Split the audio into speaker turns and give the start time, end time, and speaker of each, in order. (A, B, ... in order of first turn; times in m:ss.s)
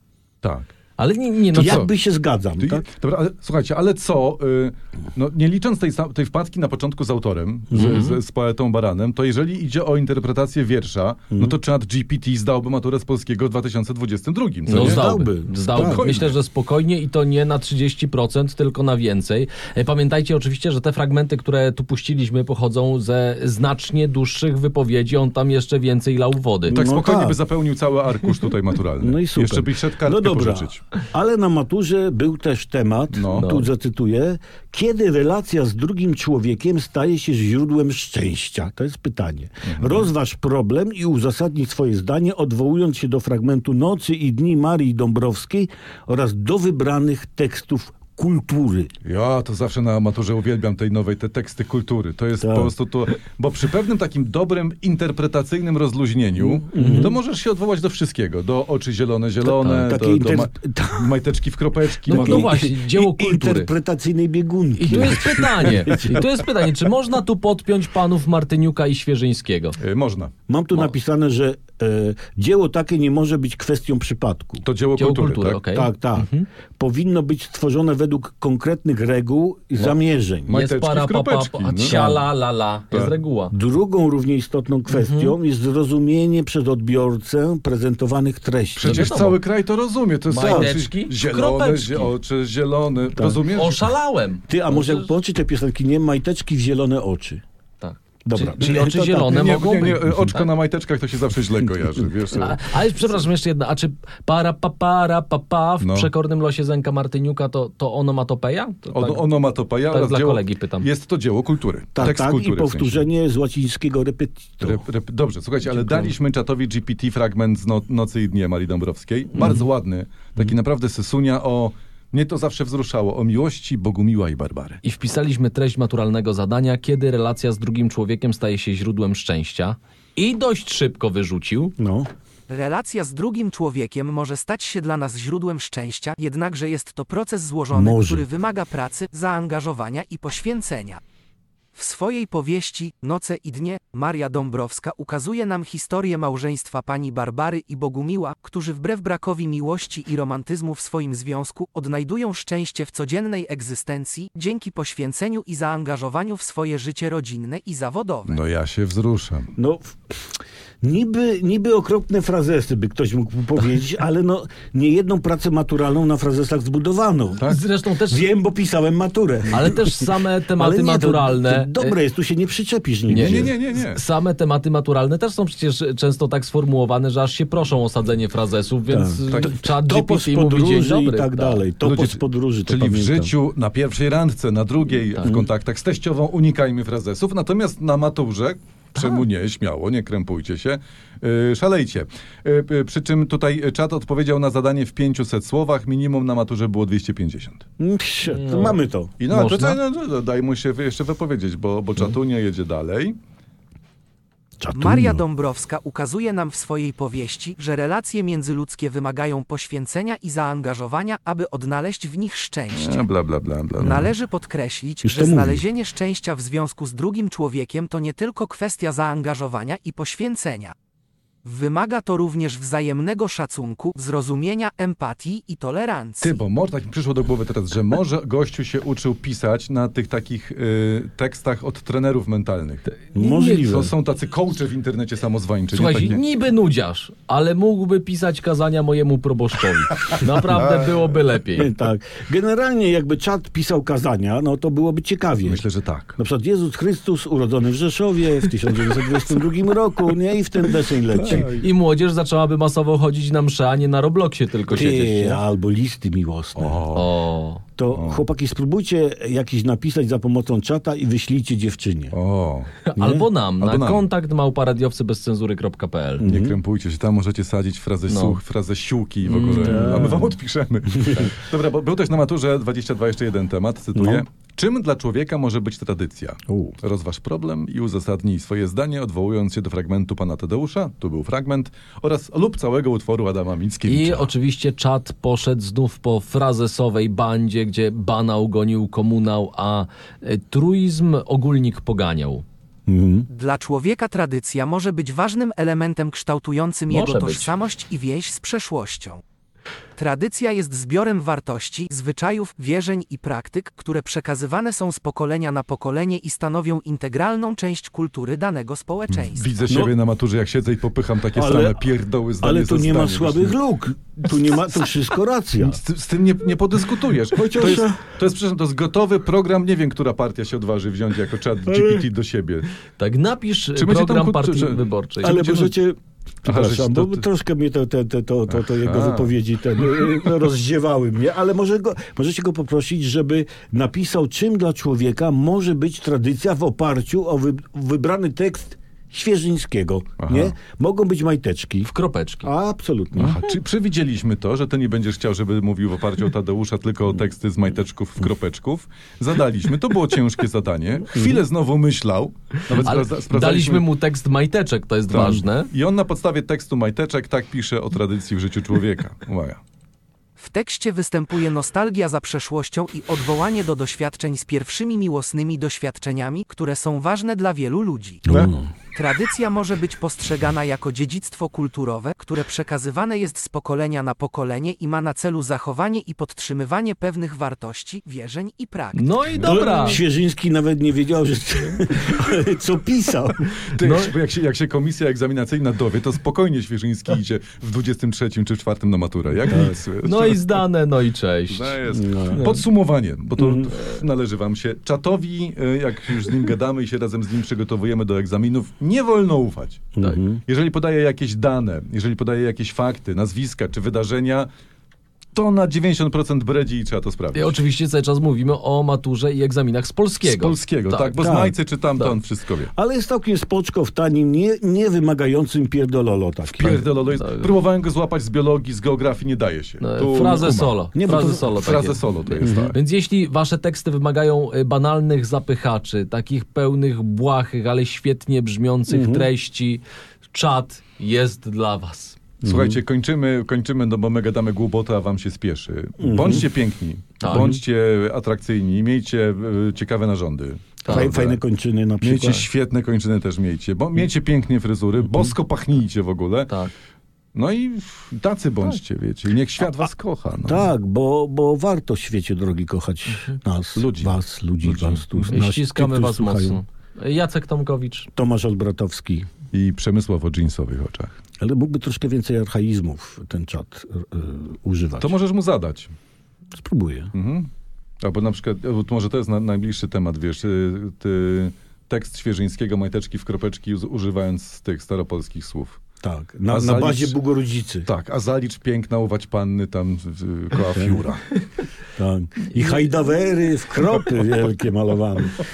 0:00.4-0:00.7 A
0:01.0-0:01.9 B
0:01.5-0:02.9 C
0:01.6-0:01.9 A
0:02.6-0:15.1 A
0:07.8-0:08.0 C
0:07.8-0:08.2 B
0:14.7-0:26.8 B
0:14.7-0:16.2 C
0:15.7-0:16.4 A
0:26.7-0:30.8 A
0:26.7-0:27.4 C
0:29.0-0:48.9 C
0:33.1-0:33.5 A
0:33.4-0:33.7 B
0:39.6-0:40.1 A
0:49.0-1:02.5 A
0:52.4-0:52.7 C
0:56.4-0:57.1 C
0:56.8-0:57.1 B
0:59.4-0:59.9 B
0:59.8-1:01.2 C
1:02.1-1:03.7 B
1:02.1-1:06.3 C
1:04.8-1:09.8 B
1:09.8-1:10.3 A
1:10.5-1:14.6 C
1:14.6-1:15.6 A
1:15.0-1:16.5 B
1:15.7-1:20.6 C
1:20.5-1:22.0 A
1:20.5-1:23.5 B
1:21.9-1:22.2 C
1:23.5-1:29.2 C
1:24.9-1:25.4 B
1:28.8-1:33.8 A
1:28.8-1:29.4 B
1:30.3-1:32.1 B
1:30.4-1:30.8 C
1:33.2-1:33.4 C
1:33.5-1:35.1 B
1:34.5-1:37.4 C
1:37.8-1:40.5 B
1:38.2-1:39.4 C
1:39.3-1:42.6 A
1:42.3-1:49.3 B
1:45.8-1:46.1 A
1:48.9-1:53.1 A
1:49.9-1:50.9 B
1:52.0-1:54.8 C
1:54.6-2:04.8 A
1:55.7-1:56.1 C
2:04.8-2:11.8 B
2:11.8-2:12.1 C
2:12.5-2:21.0 D
2:17.7-2:18.3 C
2:21.8-2:38.4 D
2:38.3-2:39.5 A
2:39.6-2:40.0 C
2:40.8-2:47.5 C
2:47.4-2:48.2 B
2:48.1-2:53.5 C
2:49.5-2:52.0 B
2:53.1-3:01.6 B
2:53.1-2:54.0 A
2:58.9-3:03.3 C
2:59.3-2:59.6 A
3:01.8-3:17.6 A
3:05.1-3:05.4 B
3:17.8-3:19.1 C
3:18.2-3:18.8 B
3:19.2-3:23.2 A
3:19.3-3:19.8 B
3:24.6-3:25.2 C
3:24.7-3:33.1 D
3:32.7-3:34.1 A
3:33.8-3:40.7 D
3:33.8-3:34.1 C
3:35.0-3:35.6 C
3:41.4-3:46.4 D
3:46.2-3:52.9 A
3:53.0-3:53.7 B
3:53.1-3:53.9 C
3:53.6-3:56.2 A
3:55.7-4:01.7 B
4:00.4-4:01.1 A
4:01.6-4:05.6 C
4:05.4-4:06.2 A
4:06.2-4:11.6 C
4:11.1-4:11.7 A
4:11.5-4:15.4 B
4:14.7-4:16.8 C
4:16.6-4:17.2 A
4:17.0-4:17.6 B
4:17.8-4:22.2 C
4:17.9-4:18.2 A
4:22.1-4:22.7 A
4:22.9-4:26.2 B
4:23.0-4:23.3 C
4:23.6-4:24.1 A
4:26.2-4:26.6 C
4:26.2-4:44.3 A
4:28.1-4:28.4 B
4:29.3-4:30.1 B
4:29.4-4:30.4 C
4:34.0-4:34.2 C
4:36.5-4:36.8 C
4:43.9-4:52.4 B
4:52.9-4:53.3 C
4:53.3-4:59.2 D
4:56.9-4:57.6 B
5:00.0-5:09.5 D
5:09.1-5:13.6 A
5:09.7-5:09.9 C
5:11.3-5:11.8 C
5:12.4-5:15.8 C
5:15.6-5:22.7 A
5:17.3-5:18.1 C
5:21.7-5:22.0 C
5:23.0-5:25.4 B
5:23.8-5:25.8 A
5:25.2-5:41.9 C
5:26.4-5:27.2 A
5:28.5-5:29.3 A
5:40.2-5:40.6 A
5:41.8-5:42.5 B
5:42.4-5:43.4 C
5:43.2-5:53.9 A
5:52.7-5:55.7 B
5:55.1-5:59.6 A
6:00.4-6:08.2 D
6:08.3-6:08.7 C
6:08.3-6:08.6 A
6:09.0-6:19.1 D
6:19.0-6:20.0 B
6:19.4-6:19.8 A
6:19.4-6:23.5 C
6:23.7-6:30.6 A
6:23.8-6:24.2 B
6:29.5-6:29.8 C
6:30.0-6:31.8 B
6:31.5-6:39.9 A
6:31.9-6:32.5 C
6:32.3-6:32.6 B
6:33.4-6:33.7 C
6:40.0-6:40.4 C
6:40.4-6:44.5 A
6:45.4-6:47.6 A
6:47.3-6:51.2 B
6:50.2-6:52.7 A
6:51.2-6:51.6 C
6:52.8-6:56.9 C
6:56.5-7:00.8 A
6:56.7-6:57.6 B
6:59.8-7:12.2 B
7:00.9-7:01.6 C
7:01.5-7:02.8 A
7:02.4-7:02.7 C
7:08.9-7:09.3 C
7:12.4-7:12.8 C
7:12.4-7:21.4 A
7:16.0-7:16.5 C
7:17.2-7:17.6 B
7:20.8-7:21.1 B
7:20.9-7:22.5 C
7:22.0-7:26.6 A
7:27.4-7:30.7 A
7:30.4-7:36.6 C
7:33.1-7:33.4 B
7:33.8-7:35.4 A
7:35.3-7:38.1 B
7:38.2-7:39.3 C
7:39.5-7:41.1 A
7:41.4-7:45.1 C
7:45.0-7:45.9 A
7:46.5-7:47.1 C
7:47.1-7:47.5 A
7:48.0-7:55.8 A
7:56.0-7:57.9 C
7:56.5-7:57.2 A
7:57.8-8:01.2 A
8:00.7-8:01.0 C
8:02.0-8:05.4 C
8:02.6-8:02.8 B